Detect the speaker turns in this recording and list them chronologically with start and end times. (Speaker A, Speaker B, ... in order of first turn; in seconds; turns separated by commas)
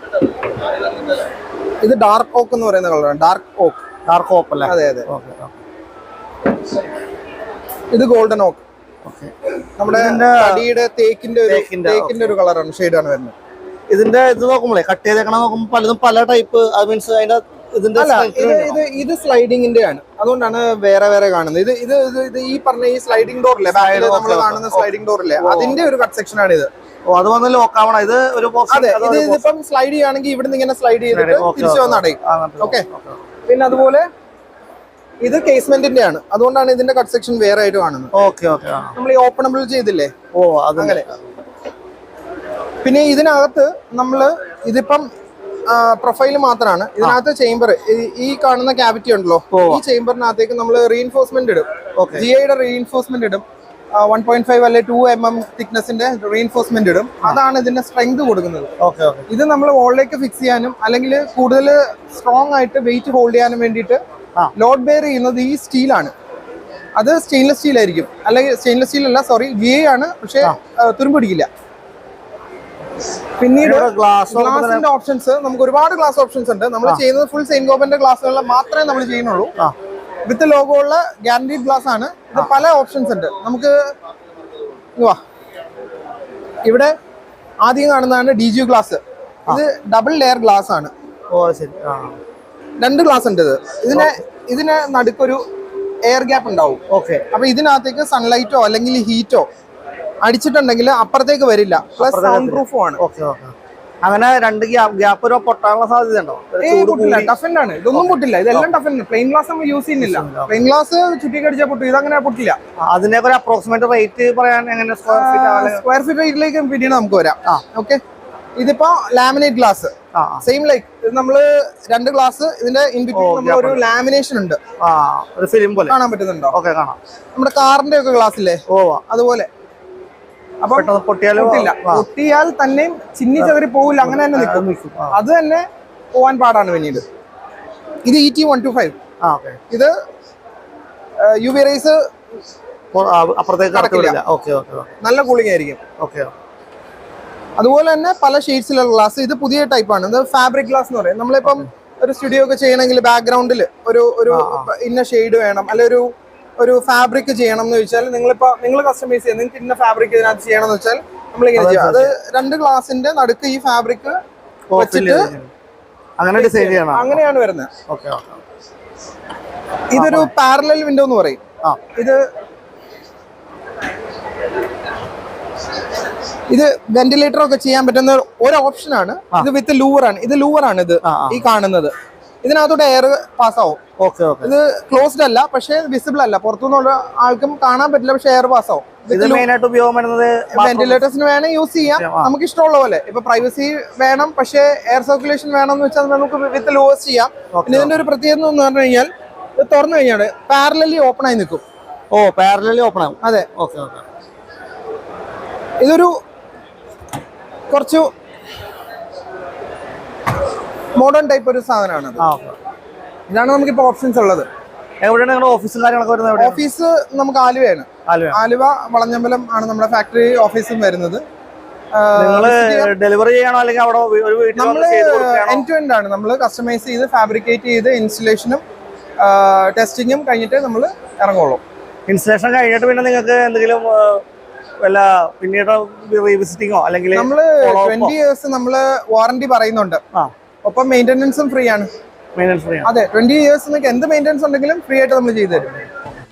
Speaker A: 1.8-3.8, Speaker B: 4.0-5.5, Speaker A: 4.6-5.1, Speaker A: 7.9-8.6, Speaker B: 9.0-9.3, Speaker A: 9.8-13.3, Speaker B: 9.9-10.7, Speaker B: 11.5-12.3, Speaker B: 13.9-18.8, Speaker A: 17.9-26.7, Speaker B: 23.7-25.8, Speaker B: 27.1-29.5, Speaker A: 28.7-32.8, Speaker B: 31.1-33.2, Speaker A: 33.5-34.0, Speaker A: 35.2-38.1, Speaker B: 38.1-38.9, Speaker A: 39.0-40.1, Speaker B: 40.3-41.2, Speaker A: 40.8-41.0, Speaker A: 42.8-45.1, Speaker A: 45.7-53.4, Speaker B: 49.5-49.8, Speaker B: 52.0-52.3, Speaker A: 53.9-58.7, Speaker B: 58.8-59.2, Speaker A: 59.3-64.0, Speaker A: 64.5-66.1, Speaker A: 67.0-71.5, Speaker A: 73.4-79.5, Speaker B: 73.6-74.9, Speaker A: 80.2-83.7, Speaker A: 86.6-86.9, Speaker A: 87.6-90.9, Speaker B: 91.3-92.2, Speaker A: 92.8-95.4, Speaker A: 96.1-99.5, Speaker B: 96.9-97.2, Speaker A: 100.2-103.0, Speaker B: 102.0-107.3, Speaker A: 106.6-112.6, Speaker B: 107.9-108.7, Speaker B: 110.0-110.7, Speaker B: 112.8-115.8, Speaker A: 115.1-118.0, Speaker A: 118.6-124.6, Speaker B: 120.1-120.4, Speaker B: 123.1-123.8, Speaker B: 124.8-126.0, Speaker A: 125.9-126.5, Speaker B: 126.5-127.0, Speaker A: 127.3-129.5, Speaker B: 128.7-129.0, Speaker A: 130.6-137.0, Speaker B: 130.7-132.0, Speaker B: 133.4-135.2, Speaker A: 138.0-138.9, Speaker B: 139.2-139.6, Speaker A: 141.2-141.9, Speaker B: 142.9-144.9, Speaker A: 143.7-144.2, Speaker A: 145.0-145.8, Speaker B: 146.0-146.3, Speaker A: 147.6-164.2, Speaker B: 154.3-154.7, Speaker B: 161.5-162.1, Speaker B: 164.7-165.5, Speaker A: 164.7-165.3, Speaker B: 166.2-167.2, Speaker A: 166.3-167.7, Speaker B: 167.9-168.4, Speaker A: 169.9-171.4, Speaker B: 169.9-170.3, Speaker A: 171.9-172.2, Speaker A: 176.5-183.8, Speaker B: 181.0-181.4, Speaker B: 184.0-184.5, Speaker A: 184.4-189.4, Speaker B: 189.1-191.0, Speaker A: 190.5-201.6, Speaker B: 191.9-192.3, Speaker B: 197.5-198.0, Speaker B: 202.1-204.0, Speaker A: 203.2-203.5, Speaker A: 205.8-206.1, Speaker A: 207.7-208.1, Speaker A: 211.0-212.2, Speaker B: 212.2-212.6, Speaker A: 213.3-214.4, Speaker B: 215.0-216.6, Speaker A: 216.4-221.2, Speaker B: 218.1-218.4, Speaker A: 221.9-222.9, Speaker B: 222.2-225.7, Speaker A: 224.6-228.6, Speaker A: 229.2-231.6, Speaker B: 232.1-234.2, Speaker B: 234.8-238.1, Speaker A: 237.1-240.0, Speaker A: 240.6-241.9, Speaker B: 242.3-242.9, Speaker A: 242.8-245.8